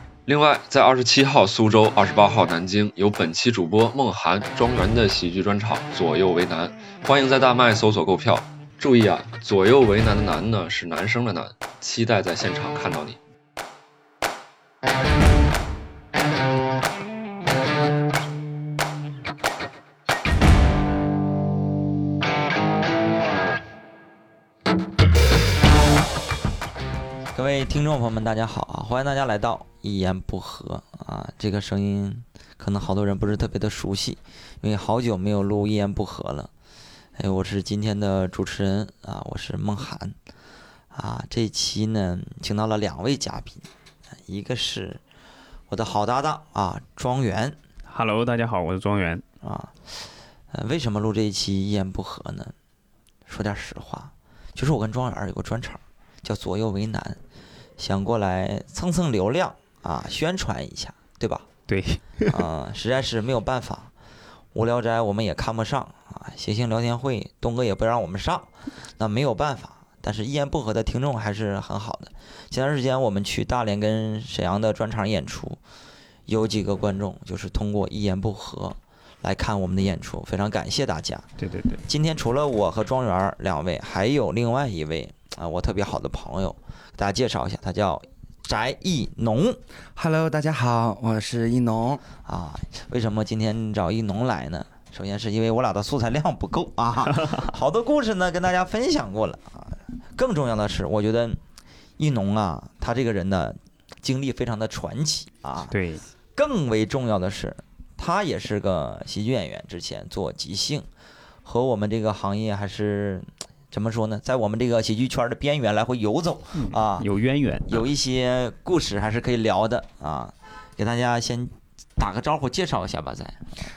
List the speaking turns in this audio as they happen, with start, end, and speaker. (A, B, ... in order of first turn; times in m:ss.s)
0:00.3-0:13.2 A
0:27.4-0:36.5 B
0:37.2-0:40.2 B
0:40.9-0:43.7 B
0:44.3-0:45.0 B
0:45.7-0:47.6 B
0:47.9-0:49.2 C
0:49.4-0:52.5 B
0:53.3-0:57.2 B
0:57.8-1:01.5 B
1:01.7-1:02.4 C
1:02.3-1:03.9 B
1:04.5-1:15.6 B
1:16.3-1:21.3 B
1:21.4-1:21.8 C
1:21.9-1:29.6 B
1:30.0-1:32.0 D
1:32.2-1:41.4 B
1:37.1-1:37.4 C
1:42.0-1:45.8 B
1:45.7-1:46.0 C
1:46.4-1:50.9 B
1:51.4-1:57.1 B
1:56.6-1:57.8 C
1:57.7-2:03.5 B